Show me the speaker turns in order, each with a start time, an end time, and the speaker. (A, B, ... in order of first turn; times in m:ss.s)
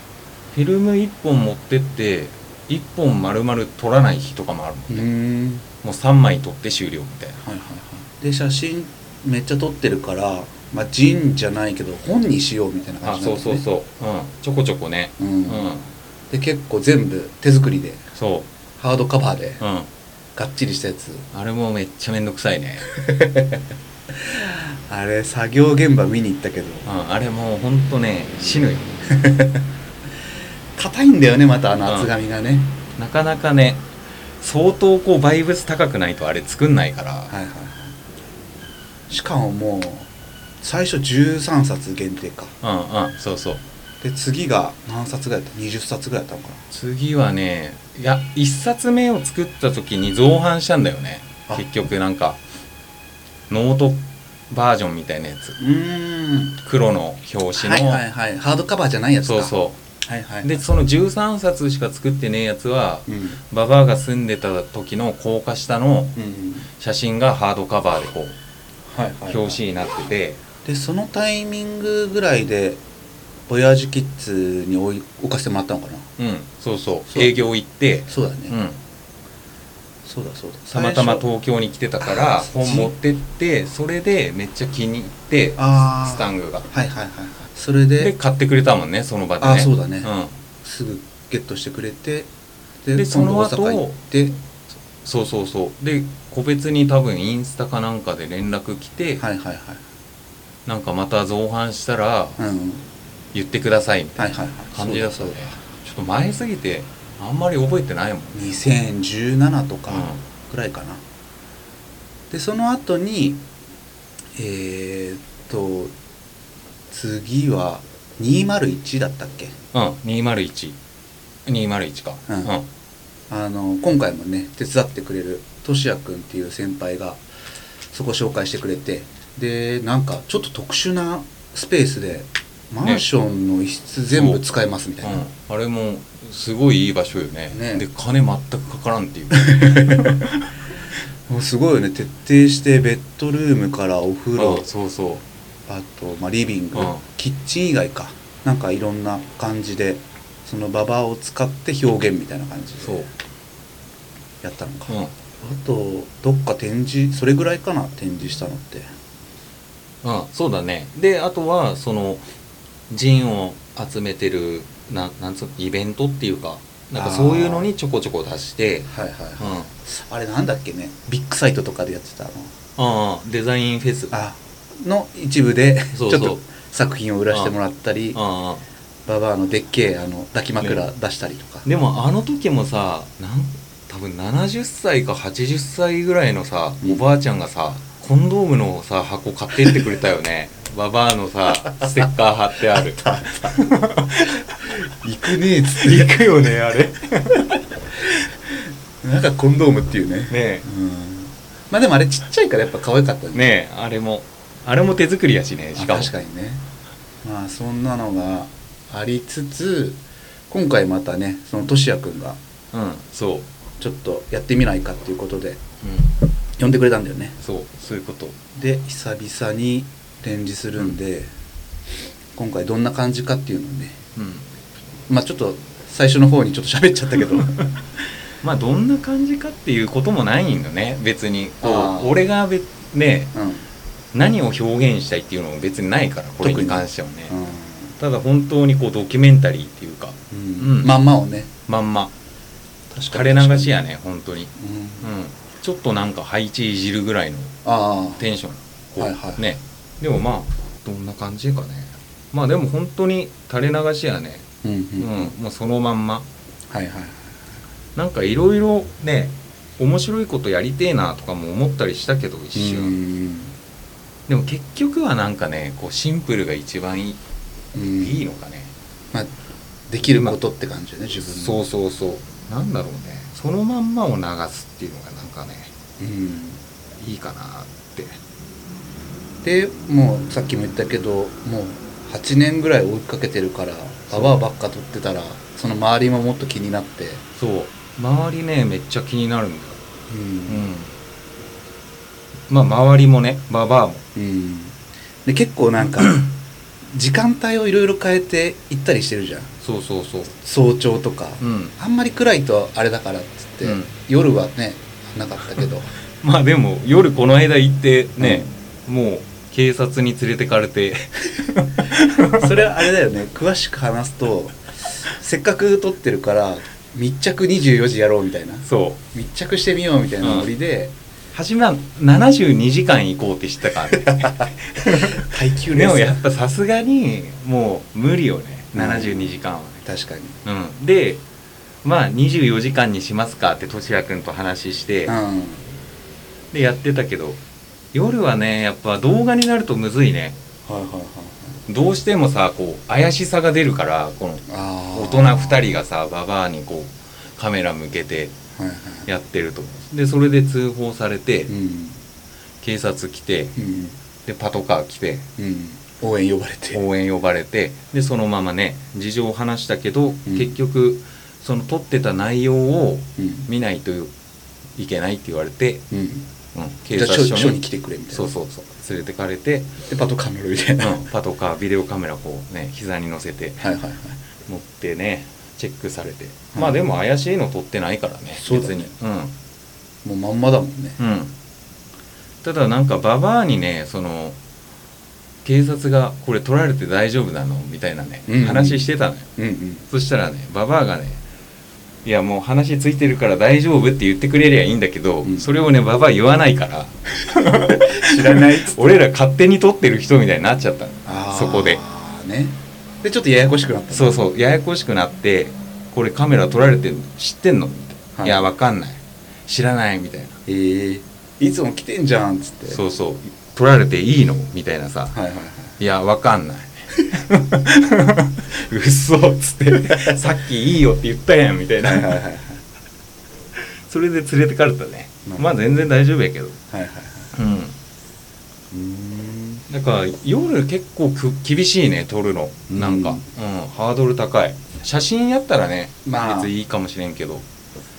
0:00.5-0:05.1 A
0:04.9-0:05.6 B
0:05.8-0:07.4 A
0:07.4-0:13.6 B
0:13.0-0:15.9 A
0:15.2-0:15.7 B
0:16.3-0:18.0 B
0:18.2-0:18.5 A
0:18.8-0:19.6 B
0:19.6-0:19.9 A
0:20.3-0:21.2 B
0:21.3-0:22.9 A
0:22.9-0:26.8 B
0:26.8-0:28.9 A
0:29.1-0:29.6 B
0:30.7-0:32.8 B
0:31.8-0:32.1 A
0:33.0-0:33.8 A
0:34.4-0:37.3 A
0:37.3-0:37.9 B
0:39.1-0:40.1 B
0:40.6-0:42.5 B
0:42.6-0:43.6 A
0:44.0-0:46.6 B
0:46.7-0:52.4 A
0:53.5-0:55.6 A
0:55.6-0:56.6 B
0:56.6-0:58.0 A
0:57.5-1:00.6 B
0:59.2-0:59.8 A
1:00.4-1:06.2 A
1:03.1-1:03.4 B
1:06.2-1:06.7 B
1:06.8-1:08.4 A
1:08.9-1:09.6 B
1:09.3-1:10.4 A
1:10.6-1:12.8 B
1:13.5-1:16.1 B
1:16.2-1:18.8 A
1:18.1-1:18.5 B
1:20.0-1:21.2 B
1:20.7-1:26.7 A
1:22.0-1:22.9 B
1:25.6-1:28.1 B
1:28.0-1:30.4 A
1:29.4-1:32.3 B
1:32.8-1:34.3 B
1:33.0-1:34.0 A
1:35.0-1:39.2 A
1:39.2-1:39.8 B
1:40.6-1:42.4 A
1:42.4-1:42.8 B
1:43.3-1:48.7 A
1:44.2-1:45.6 B
1:48.3-1:51.0 B
1:49.9-1:50.2 A
1:52.3-1:53.4 B
1:54.3-1:55.9 B
1:56.9-1:59.6 B
1:59.7-2:00.8 A
2:01.4-2:02.6 A
2:02.3-2:02.5 B
2:03.3-2:07.2 B
2:07.9-2:15.2 B
2:14.1-2:14.4 A
2:15.0-2:20.5 A
2:17.5-2:17.8 B
2:19.3-2:20.3 B
2:21.3-2:24.7 B
2:24.4-2:25.2 A
2:25.7-2:33.0 B
2:26.7-2:27.0 A
2:32.8-2:33.1 A
2:34.4-2:38.9 B
2:34.9-2:35.1 A
2:40.0-2:42.2 A
2:42.9-2:49.7 A
2:46.9-2:47.7 B
2:48.9-2:52.5 B
2:52.8-2:54.1 A
2:54.1-2:58.2 B
2:55.9-2:56.4 A
2:58.1-2:58.6 A
2:59.0-3:01.6 B
3:00.6-3:00.8 A
3:01.6-3:14.5 A
3:11.8-3:12.1 B
3:12.7-3:13.6 B
3:14.6-3:16.5 B
3:15.7-3:18.1 A
3:18.0-3:23.5 B
3:20.3-3:20.6 A
3:23.3-3:26.1 A
3:25.8-3:26.6 B
3:27.2-3:32.4 B
3:32.7-3:33.5 A
3:33.8-3:35.6 B
3:35.8-3:36.1 A
3:36.6-3:37.4 B
3:37.4-3:38.4 A
3:38.5-3:41.3 B
3:42.3-3:44.0 B
3:44.2-3:44.4 A
3:45.1-3:47.6 B
3:47.4-3:47.7 A
3:48.4-3:53.3 A
3:51.6-3:52.2 B
3:53.3-3:53.7 B
3:54.1-3:57.3 A
3:56.4-3:57.9 B
3:58.0-4:01.0 A
4:00.3-4:01.5 B
4:01.7-4:02.1 A
4:02.9-4:03.7 B
4:03.1-4:07.6 A
4:04.6-4:05.1 B
4:07.6-4:08.3 B
4:08.2-4:14.5 A
4:09.0-4:09.4 B
4:14.6-4:15.3 B
4:15.0-4:16.3 A
4:16.7-4:17.4 B
4:18.0-4:23.0 A
4:22.5-4:23.5 B
4:24.3-4:27.2 A
4:27.7-4:28.2 B
4:27.9-4:28.7 A
4:29.9-4:31.6 B
4:30.0-4:30.4 A
4:31.2-4:35.7 A
4:36.0-4:36.6 B
4:37.0-4:38.2 A
4:39.4-4:47.2 B
4:47.4-4:49.8 A
4:50.1-4:50.6 B
4:50.5-4:50.9 A
4:52.5-4:54.0 A
4:54.1-4:56.2 B
4:56.9-4:59.5 B
4:59.6-5:00.3 A
5:00.3-5:05.9 B
5:01.4-5:01.7 A
5:03.6-5:03.9 A
5:06.2-5:12.6 A
5:08.2-5:08.5 B
5:12.3-5:20.9 B
5:18.6-5:19.0 A
5:20.2-5:20.5 A
5:21.3-5:29.8 A
5:23.9-5:26.2 B
5:28.7-5:30.4 B
5:30.4-5:31.2 A
5:31.8-5:35.2 A
5:35.0-5:35.7 B
5:36.5-5:37.4 A
5:37.9-5:40.4 A
5:40.6-5:41.6 B
5:41.7-5:48.3 A
5:44.5-5:45.6 B
5:48.6-5:49.1 B
5:49.0-5:51.5 A
5:51.5-5:52.0 B
5:52.6-5:53.6 A
5:53.6-5:54.0 B
5:54.2-5:55.3 A
5:55.4-5:56.8 B
5:56.7-6:04.1 A
6:00.2-6:00.5 B
6:03.2-6:03.5 B
6:04.8-6:05.8 A
6:05.9-6:06.3 B
6:06.5-6:07.6 A
6:06.9-6:08.3 B
6:08.1-6:09.8 A
6:09.9-6:11.0 B
6:10.8-6:13.7 A
6:13.6-6:14.2 B
6:14.5-6:19.3 A
6:18.4-6:18.9 B
6:20.0-6:21.0 B
6:21.0-6:21.3 A
6:22.4-6:24.4 A
6:25.4-6:29.3 A
6:28.3-6:29.8 B
6:29.9-6:31.2 A
6:32.0-6:41.8 A
6:37.4-6:39.0 B
6:41.0-6:44.2 B
6:43.9-6:50.4 A
6:48.2-6:48.4 B
6:50.4-6:52.8 B
6:52.7-6:55.2 A
6:55.1-6:55.8 B
6:55.8-7:02.2 A
6:59.7-7:00.2 B
7:01.8-7:02.6 B
7:03.6-7:06.6 A
7:05.2-7:05.6 B
7:06.7-7:07.3 B
7:07.3-7:07.7 A
7:08.7-7:09.6 B
7:09.7-7:17.4 A
7:12.7-7:13.2 B
7:16.0-7:16.5 B